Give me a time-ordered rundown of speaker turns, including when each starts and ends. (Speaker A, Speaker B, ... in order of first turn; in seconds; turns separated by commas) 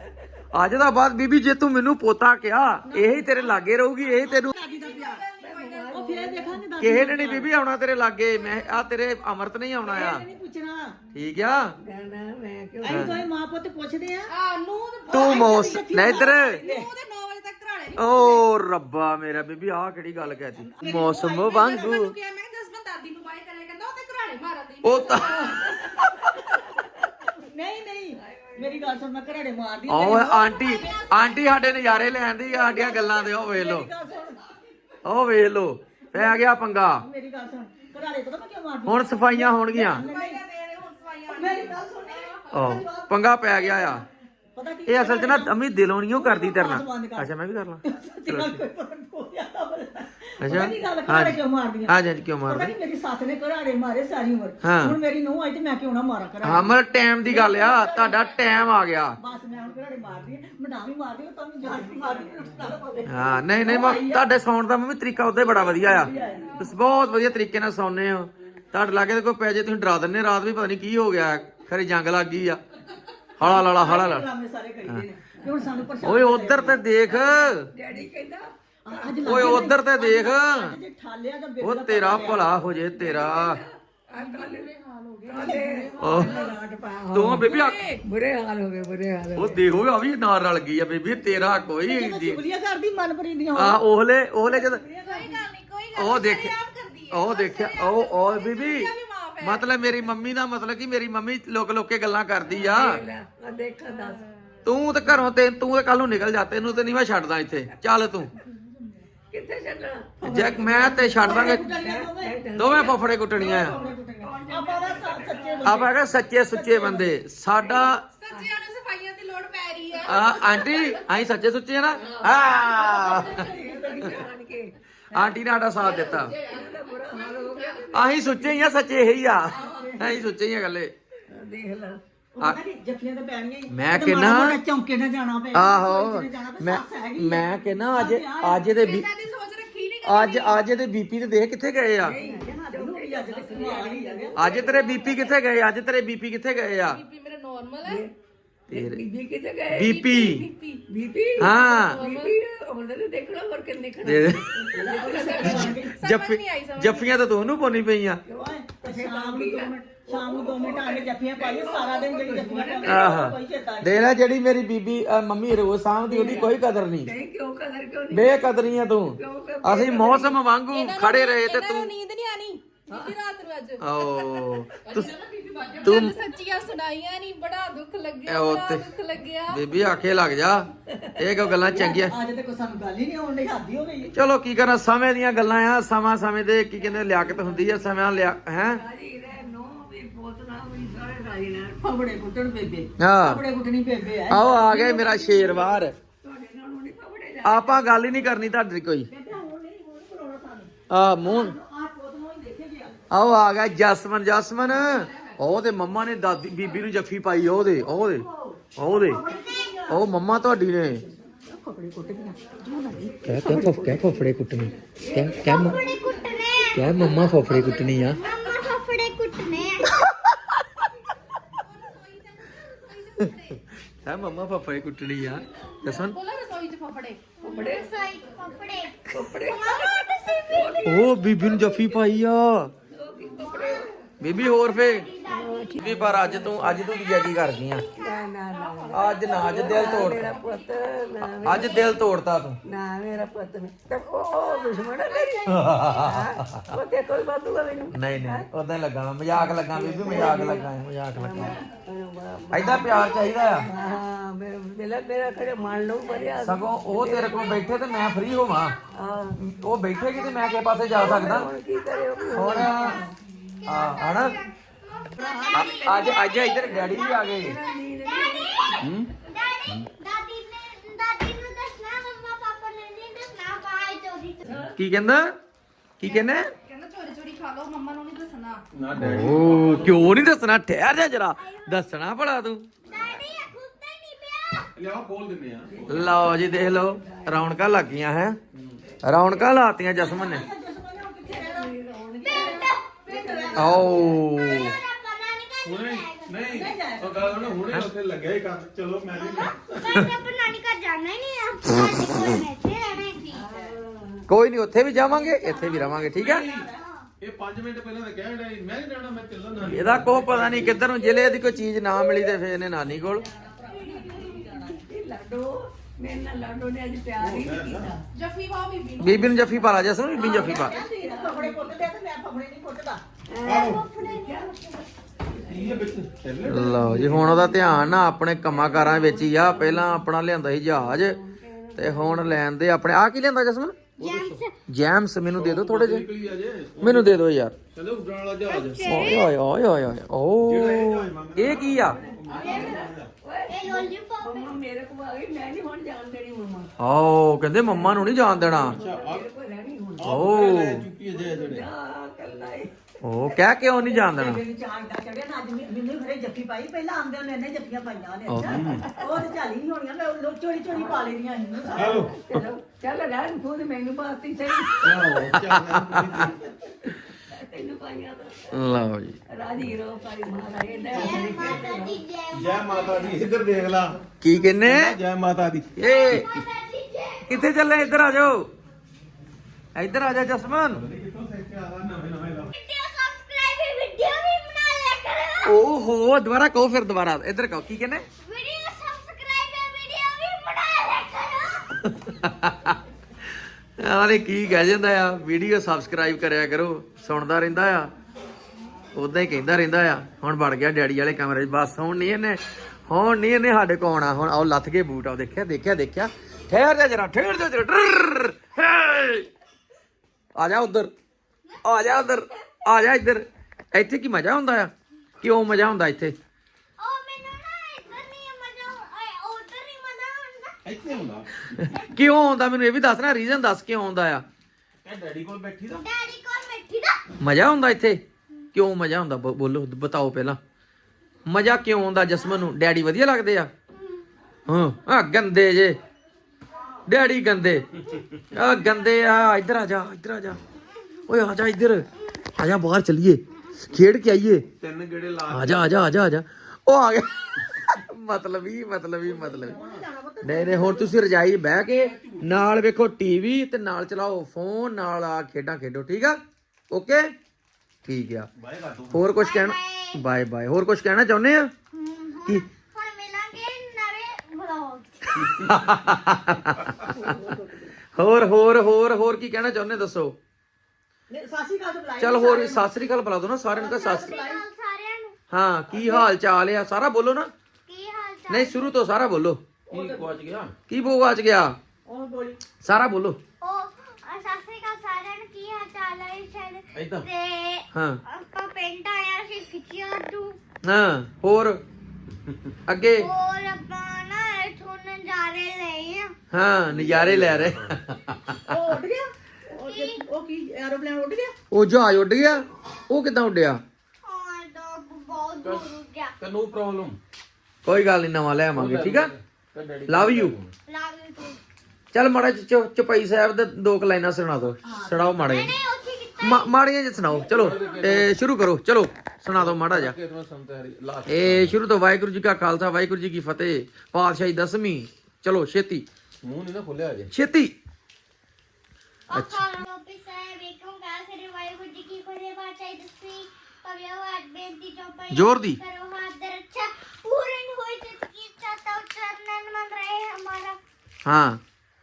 Speaker A: 0.5-4.5, Speaker B: 2.9-5.2, Speaker C: 4.4-6.1, Speaker D: 5.4-6.6, Speaker B: 5.9-7.5, Speaker A: 6.8-10.2, Speaker B: 9.8-11.0, Speaker A: 11.1-11.7, Speaker D: 11.8-13.2, Speaker B: 12.8-14.3, Speaker A: 12.9-13.2, Speaker C: 14.3-15.5, Speaker B: 15.1-16.9, Speaker A: 15.1-16.6, Speaker C: 16.6-18.4, Speaker A: 18.0-22.1, Speaker B: 20.5-21.1, Speaker C: 20.8-26.0, Speaker A: 24.8-26.3, Speaker D: 25.8-27.1, Speaker B: 27.3-31.0, Speaker D: 28.1-29.0, Speaker A: 29.9-33.9, Speaker C: 30.5-31.8, Speaker B: 32.2-34.4, Speaker A: 35.0-37.0, Speaker B: 36.1-36.5, Speaker B: 37.0-40.4, Speaker A: 38.9-40.0, Speaker C: 39.8-42.4, Speaker B: 41.3-44.0, Speaker A: 42.5-44.0, Speaker B: 44.5-45.5, Speaker A: 44.9-48.6, Speaker B: 46.1-47.3, Speaker B: 47.8-56.7, Speaker A: 50.4-52.7, Speaker A: 54.6-55.0, Speaker A: 56.4-59.2, Speaker B: 57.2-58.3, Speaker B: 59.2-64.2, Speaker A: 63.1-72.6, Speaker B: 65.3-66.6, Speaker A: 73.4-74.2, Speaker B: 73.4-76.8, Speaker D: 75.4-75.7, Speaker A: 76.0-77.7, Speaker D: 77.1-79.5, Speaker B: 78.8-82.5, Speaker A: 79.2-80.8, Speaker A: 81.6-83.6, Speaker D: 82.9-84.7, Speaker C: 84.1-86.3, Speaker B: 85.2-86.8, Speaker D: 85.3-89.6, Speaker A: 86.0-86.4, Speaker A: 87.1-87.9, Speaker C: 87.3-88.0, Speaker A: 89.3-92.4, Speaker B: 91.8-93.8, Speaker A: 93.5-94.8, Speaker B: 94.4-95.4, Speaker C: 95.0-99.8, Speaker A: 96.0-96.5, Speaker A: 97.1-98.9, Speaker A: 99.4-103.0, Speaker D: 102.4-104.2, Speaker A: 104.6-108.3, Speaker D: 109.3-115.9, Speaker A: 110.2-111.7, Speaker B: 111.1-112.4, Speaker A: 112.5-113.8, Speaker B: 113.3-117.1, Speaker A: 115.6-118.0, Speaker C: 117.6-121.1, Speaker A: 120.0-123.4, Speaker D: 122.0-124.7, Speaker B: 123.3-124.0, Speaker A: 125.1-126.3, Speaker D: 125.7-128.7, Speaker C: 125.8-128.1, Speaker A: 127.9-130.9, Speaker D: 129.4-130.1, Speaker B: 129.5-130.3, Speaker D: 131.3-132.0, Speaker B: 132.3-138.7, Speaker A: 133.7-134.6, Speaker A: 135.5-139.1, Speaker C: 138.8-140.7, Speaker A: 140.0-142.2, Speaker D: 142.0-145.3, Speaker B: 142.1-145.1, Speaker A: 144.3-147.0, Speaker C: 146.9-148.0, Speaker D: 147.8-148.1, Speaker A: 148.7-149.0, Speaker D: 148.7-155.8, Speaker A: 149.7-150.4, Speaker C: 149.8-150.8, Speaker C: 151.4-152.4, Speaker A: 151.4-152.0, Speaker A: 154.0-154.4, Speaker B: 154.7-155.9, Speaker C: 155.2-157.1, Speaker A: 155.6-158.2, Speaker D: 158.3-163.2, Speaker B: 158.5-164.1, Speaker A: 162.8-167.1, Speaker D: 166.0-170.4, Speaker A: 168.1-171.9, Speaker C: 170.7-179.9, Speaker D: 172.9-173.1, Speaker A: 173.8-175.1, Speaker A: 175.8-176.1, Speaker A: 178.3-178.8, Speaker A: 179.5-182.1, Speaker D: 180.9-181.4, Speaker B: 181.7-184.1, Speaker A: 184.1-188.8, Speaker D: 188.6-191.8, Speaker B: 191.8-195.0, Speaker A: 193.0-193.4, Speaker A: 194.3-195.9, Speaker D: 194.7-198.4, Speaker A: 197.4-199.1, Speaker B: 199.1-202.9, Speaker A: 200.9-201.5, Speaker A: 203.1-209.2, Speaker B: 208.2-210.1, Speaker A: 209.9-211.0, Speaker B: 211.3-213.8, Speaker A: 213.2-215.8, Speaker D: 213.4-218.0, Speaker E: 215.4-217.4, Speaker A: 216.7-218.2, Speaker E: 218.1-219.9, Speaker C: 221.6-223.7, Speaker A: 224.0-226.2, Speaker C: 225.8-227.2, Speaker E: 227.4-232.0, Speaker D: 227.4-227.9, Speaker D: 229.1-231.1, Speaker A: 230.8-232.7, Speaker D: 232.9-233.9, Speaker E: 233.3-236.0, Speaker A: 234.2-235.1, Speaker D: 235.3-236.8, Speaker A: 235.8-237.8, Speaker E: 236.6-238.3, Speaker D: 237.9-241.8, Speaker C: 238.5-241.8, Speaker A: 238.9-240.3, Speaker A: 241.4-242.6, Speaker D: 242.6-248.4, Speaker E: 244.4-245.7, Speaker A: 245.4-246.7, Speaker A: 247.9-251.6, Speaker D: 249.5-257.6, Speaker A: 252.5-253.7, Speaker E: 252.6-254.0, Speaker A: 256.4-258.8, Speaker D: 258.9-259.4, Speaker A: 259.4-261.5, Speaker E: 259.9-260.7, Speaker D: 260.9-263.1, Speaker E: 261.8-263.0, Speaker A: 262.3-263.0, Speaker E: 263.6-274.6, Speaker A: 263.7-264.4, Speaker D: 265.2-268.9, Speaker B: 265.2-265.8, Speaker A: 265.5-267.5, Speaker F: 268.8-269.1, Speaker D: 274.4-274.7, Speaker A: 274.7-275.3, Speaker A: 276.0-276.5, Speaker C: 276.0-278.6, Speaker F: 278.7-280.2, Speaker A: 278.9-282.6, Speaker E: 281.4-281.9, Speaker D: 282.9-283.2, Speaker E: 282.9-284.7, Speaker F: 284.8-285.7, Speaker D: 285.7-287.8, Speaker A: 285.9-288.4, Speaker F: 288.5-288.8, Speaker A: 289.0-290.4, Speaker B: 289.9-291.7, Speaker D: 291.2-294.2, Speaker E: 292.2-293.1, Speaker B: 293.1-294.0, Speaker A: 293.6-294.7, Speaker E: 294.2-296.6, Speaker F: 295.6-300.1, Speaker B: 296.5-297.5, Speaker E: 299.1-303.3, Speaker C: 303.1-303.7, Speaker D: 303.4-304.2, Speaker A: 304.3-306.4, Speaker B: 304.9-306.9, Speaker F: 306.2-306.7, Speaker F: 307.2-310.9, Speaker A: 309.7-313.2, Speaker E: 310.8-312.4, Speaker B: 313.1-314.8, Speaker D: 313.8-318.0, Speaker F: 317.2-317.9, Speaker C: 318.1-319.9, Speaker A: 319.0-320.8, Speaker D: 320.1-321.9, Speaker B: 320.1-323.0, Speaker D: 323.3-324.6, Speaker F: 323.4-323.8, Speaker E: 323.4-324.8, Speaker D: 325.3-326.0, Speaker F: 325.5-327.4, Speaker A: 326.5-331.1, Speaker D: 326.6-332.4, Speaker A: 331.8-333.8, Speaker F: 334.0-334.4, Speaker E: 334.0-334.5, Speaker A: 334.7-336.1, Speaker F: 335.3-337.1, Speaker A: 336.8-337.6, Speaker F: 337.7-339.1, Speaker E: 338.4-339.3, Speaker A: 338.9-342.0, Speaker F: 340.4-343.1, Speaker D: 341.8-346.7, Speaker E: 342.3-342.8, Speaker E: 343.5-344.5, Speaker A: 346.8-348.8, Speaker D: 347.6-350.2, Speaker F: 348.6-349.2, Speaker F: 350.0-351.7, Speaker A: 350.0-350.9, Speaker D: 351.0-352.7, Speaker A: 353.0-354.4, Speaker B: 353.6-362.0, Speaker A: 358.3-358.6, Speaker F: 358.4-358.9, Speaker D: 358.7-359.2, Speaker D: 361.7-365.1, Speaker F: 361.8-362.1, Speaker E: 364.6-365.0, Speaker F: 364.8-366.4, Speaker A: 365.3-366.3, Speaker D: 366.9-368.8, Speaker A: 368.5-369.2, Speaker D: 369.3-372.0, Speaker E: 370.8-373.5, Speaker F: 370.9-371.6, Speaker F: 372.3-374.0, Speaker A: 374.2-375.0, Speaker F: 374.6-376.4, Speaker A: 375.8-376.3, Speaker E: 375.8-378.1, Speaker A: 377.3-378.4, Speaker A: 379.7-380.9, Speaker F: 380.8-382.5, Speaker E: 382.5-385.6, Speaker A: 385.4-388.0, Speaker E: 388.2-391.8, Speaker A: 391.8-392.8, Speaker A: 393.8-397.9, Speaker A: 398.9-409.2, Speaker A: 410.4-410.9, Speaker A: 411.6-416.1, Speaker E: 416.8-420.6, Speaker F: 420.6-421.3, Speaker A: 421.5-424.2, Speaker E: 421.6-422.1, Speaker F: 424.8-425.9, Speaker E: 425.8-427.0, Speaker A: 427.2-428.0, Speaker A: 428.5-430.4, Speaker A: 431.2-433.5, Speaker E: 433.7-434.1, Speaker A: 434.5-435.8, Speaker A: 436.9-437.7, Speaker A: 438.3-440.4, Speaker A: 441.1-444.5, Speaker F: 444.6-445.7, Speaker A: 445.3-449.6, Speaker B: 449.0-450.9, Speaker F: 449.5-449.8, Speaker A: 450.2-456.2, Speaker F: 451.7-452.4, Speaker A: 456.7-457.1, Speaker A: 457.8-458.3, Speaker F: 458.4-459.0, Speaker A: 458.9-461.5, Speaker E: 459.1-460.0, Speaker E: 461.7-465.3, Speaker A: 465.2-467.0, Speaker F: 465.2-465.7, Speaker D: 466.9-467.8, Speaker A: 467.9-470.1, Speaker B: 471.1-472.7, Speaker A: 472.0-474.2, Speaker B: 473.5-474.4, Speaker E: 473.8-475.1, Speaker A: 475.3-477.3, Speaker B: 475.7-476.1, Speaker E: 477.7-478.8, Speaker A: 478.3-479.4, Speaker B: 479.7-480.1, Speaker F: 479.7-480.5, Speaker A: 480.7-481.6, Speaker B: 481.9-482.4, Speaker A: 482.6-483.2, Speaker E: 483.4-490.4, Speaker F: 486.7-487.1, Speaker A: 487.7-488.0, Speaker A: 490.6-491.6, Speaker A: 492.7-493.1, Speaker E: 493.0-496.1, Speaker A: 496.3-498.5, Speaker F: 496.7-497.6, Speaker B: 498.5-501.3, Speaker E: 499.6-500.1, Speaker A: 501.5-503.6, Speaker E: 504.0-506.1, Speaker F: 505.4-507.0, Speaker A: 507.6-509.1, Speaker F: 508.5-510.5, Speaker A: 509.9-510.3, Speaker E: 510.7-511.4, Speaker A: 511.9-515.5, Speaker B: 514.6-515.3, Speaker E: 515.2-516.5, Speaker A: 516.2-520.0, Speaker F: 517.1-518.1, Speaker E: 517.6-517.9, Speaker F: 519.3-521.5, Speaker A: 521.1-525.9, Speaker F: 526.2-527.1, Speaker A: 527.1-527.5, Speaker E: 529.1-540.6, Speaker A: 529.1-529.5, Speaker A: 535.1-535.6, Speaker A: 541.0-541.4